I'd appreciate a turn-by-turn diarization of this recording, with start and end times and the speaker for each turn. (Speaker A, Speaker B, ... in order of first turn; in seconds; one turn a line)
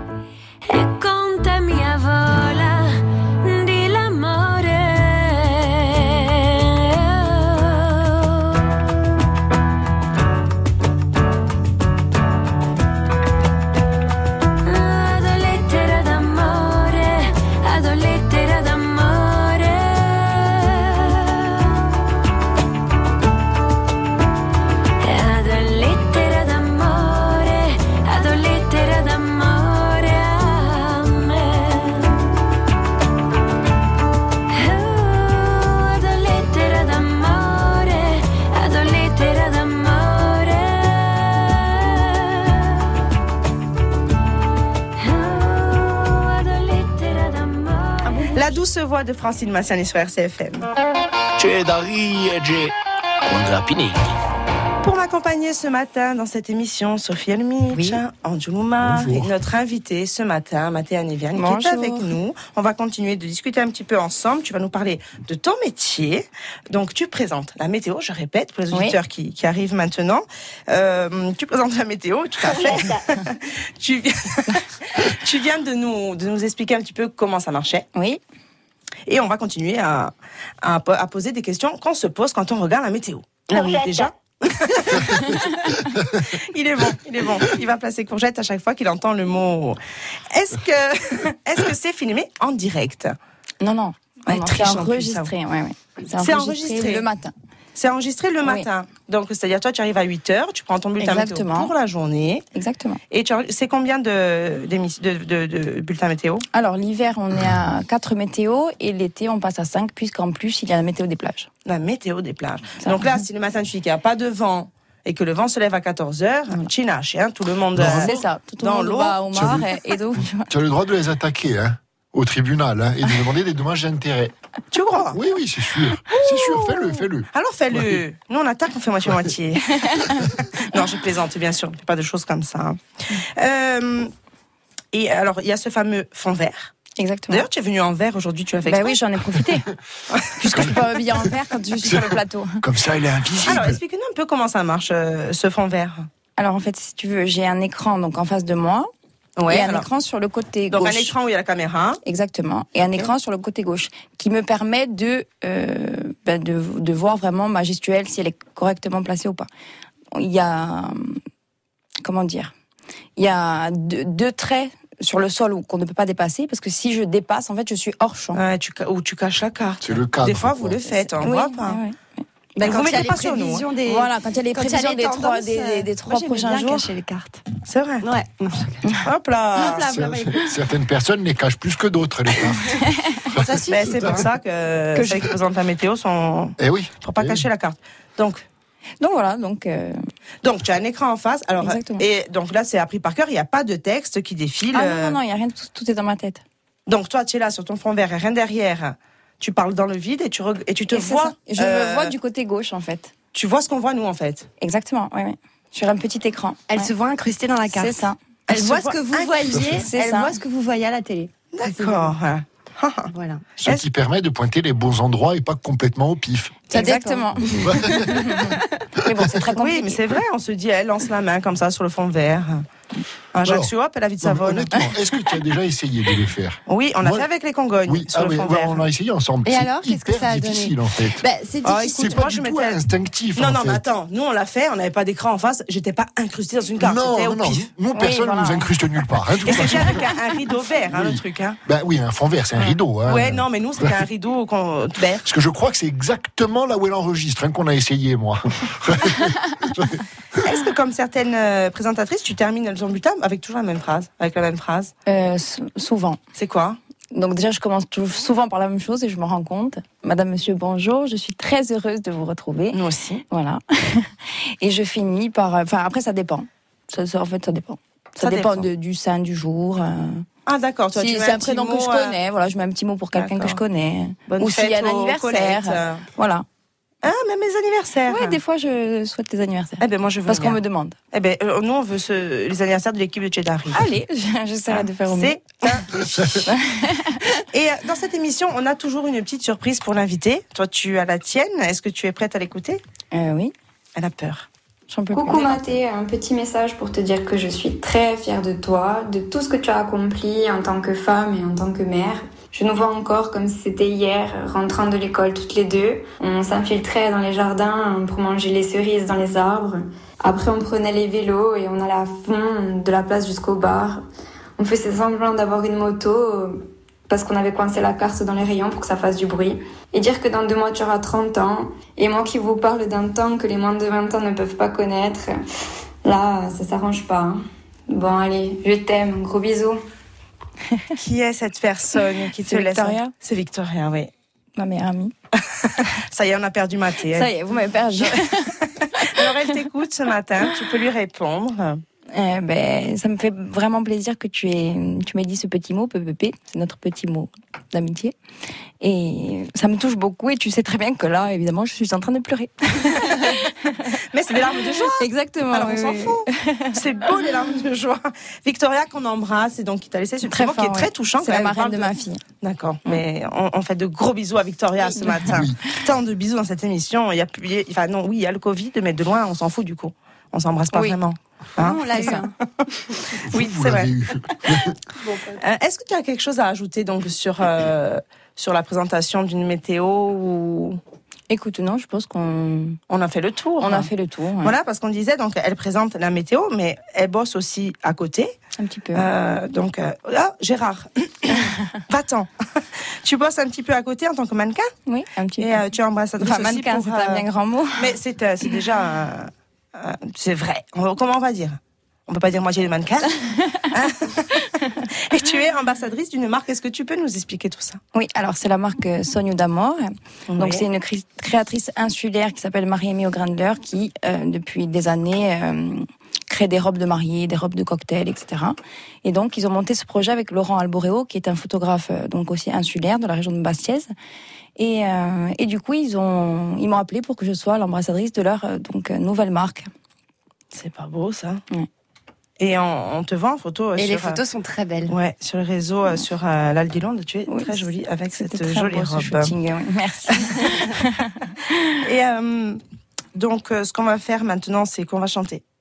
Speaker A: 0.6-8.6
Speaker A: 14.6-21.8
Speaker A: 25.0-32.3
Speaker A: 34.5-42.8
Speaker A: 45.0-48.6
Speaker B: 48.1-50.7
Speaker C: 51.4-52.7
Speaker C: 53.2-54.1
Speaker B: 54.8-77.9
Speaker D: 58.8-59.3
Speaker E: 61.4-62.1
Speaker E: 68.7-69.0
Speaker E: 77.9-78.2
Speaker B: 79.1-85.5
Speaker B: 86.2-89.8
Speaker B: 90.3-93.2
Speaker E: 93.6-97.3
Speaker B: 94.3-95.3
Speaker B: 96.1-97.0
Speaker B: 97.7-102.4
Speaker E: 101.0-101.7
Speaker E: 102.5-103.0
Speaker B: 103.1-106.4
Speaker E: 106.5-111.5
Speaker B: 111.7-119.6
Speaker E: 112.8-113.2
Speaker D: 117.8-118.2
Speaker E: 117.9-120.5
Speaker D: 119.3-124.3
Speaker B: 124.7-125.2
Speaker D: 125.1-128.0
Speaker B: 126.1-134.1
Speaker B: 134.9-136.7
Speaker E: 137.0-137.4
Speaker B: 137.3-139.0
Speaker E: 138.7-139.7
Speaker B: 140.1-140.7
Speaker E: 140.4-142.6
Speaker D: 141.8-143.8
Speaker B: 143.4-146.1
Speaker E: 146.4-148.9
Speaker B: 149.4-149.9
Speaker E: 149.5-151.1
Speaker B: 150.7-152.0
Speaker E: 152.0-159.5
Speaker E: 160.1-161.2
Speaker E: 162.0-162.5
Speaker E: 163.2-168.4
Speaker B: 168.3-171.8
Speaker D: 169.8-170.8
Speaker E: 171.2-172.0
Speaker F: 172.6-177.4
Speaker B: 172.6-173.7
Speaker E: 172.6-172.9
Speaker E: 173.8-176.9
Speaker B: 177.7-178.1
Speaker F: 178.0-179.0
Speaker B: 179.0-180.0
Speaker F: 179.6-180.5
Speaker D: 179.9-184.2
Speaker F: 183.3-184.2
Speaker B: 183.7-188.4
Speaker D: 186.6-187.4
Speaker E: 189.0-190.0
Speaker B: 190.4-195.2
Speaker E: 191.6-192.0
Speaker E: 194.7-196.4
Speaker B: 196.9-202.1
Speaker E: 200.9-203.1
Speaker B: 203.3-204.5
Speaker E: 204.6-206.9
Speaker F: 206.7-212.1
Speaker E: 207.7-208.2
Speaker B: 208.5-209.7
Speaker E: 209.8-210.3
Speaker B: 211.5-213.8
Speaker F: 213.1-213.4
Speaker D: 213.6-216.6
Speaker F: 216.7-218.5
Speaker E: 216.7-220.0
Speaker D: 217.6-218.4
Speaker B: 219.6-222.6
Speaker B: 223.3-224.8
Speaker D: 223.4-223.7
Speaker D: 224.2-227.2
Speaker B: 226.7-228.8
Speaker D: 227.8-231.2
Speaker F: 229.4-232.3
Speaker B: 231.6-232.8
Speaker D: 231.9-233.8
Speaker B: 233.3-237.7
Speaker D: 236.8-240.1
Speaker E: 237.9-238.7
Speaker B: 239.4-241.6
Speaker D: 240.9-243.9
Speaker B: 242.6-245.2
Speaker D: 245.2-250.0
Speaker B: 250.4-254.9
Speaker E: 255.1-256.2
Speaker B: 256.4-256.8
Speaker E: 257.1-262.8
Speaker B: 262.7-263.2
Speaker E: 263.3-270.2
Speaker B: 268.2-268.7
Speaker B: 270.4-272.2
Speaker E: 270.9-276.4
Speaker B: 273.1-273.6
Speaker B: 274.3-276.0
Speaker B: 277.0-278.4
Speaker E: 278.1-280.9
Speaker B: 279.8-280.6
Speaker B: 281.1-283.9
Speaker E: 283.7-285.7
Speaker B: 284.7-286.5
Speaker E: 286.4-287.2
Speaker B: 287.5-292.8
Speaker E: 293.1-293.5
Speaker B: 293.9-294.5
Speaker E: 294.9-295.7
Speaker G: 295.1-314.0
Speaker G: 314.6-325.3
Speaker G: 326.0-329.8
Speaker B: 331.0-334.1
Speaker E: 332.4-333.1
Speaker E: 334.6-335.1
Speaker B: 335.6-337.3
Speaker E: 337.1-339.3
Speaker B: 338.0-341.8
Speaker E: 342.1-348.1
Speaker E: 348.8-353.9
Speaker B: 354.1-361.9
Speaker E: 354.9-356.8
Speaker E: 360.2-362.2
Speaker B: 362.4-372.2
Speaker D: 365.2-365.6
Speaker F: 371.6-372.3
Speaker D: 373.2-374.8
Speaker B: 373.3-373.9
Speaker B: 375.4-380.8
Speaker E: 381.3-382.8
Speaker B: 382.9-383.9
Speaker E: 383.6-384.5
Speaker B: 384.4-388.3
Speaker E: 388.6-389.1
Speaker B: 388.9-392.3
Speaker B: 393.0-394.7
Speaker E: 394.9-395.6
Speaker B: 395.4-397.2
Speaker E: 396.2-397.9
Speaker B: 397.8-407.8
Speaker E: 407.9-423.9
Speaker B: 410.3-410.6
Speaker E: 424.6-429.7
Speaker B: 430.5-431.4
Speaker B: 432.4-434.2
Speaker F: 433.8-434.9
Speaker B: 434.9-439.3
Speaker E: 437.3-437.6
Speaker E: 438.1-441.7
Speaker B: 440.1-440.6
Speaker B: 441.8-442.6
Speaker B: 443.1-445.4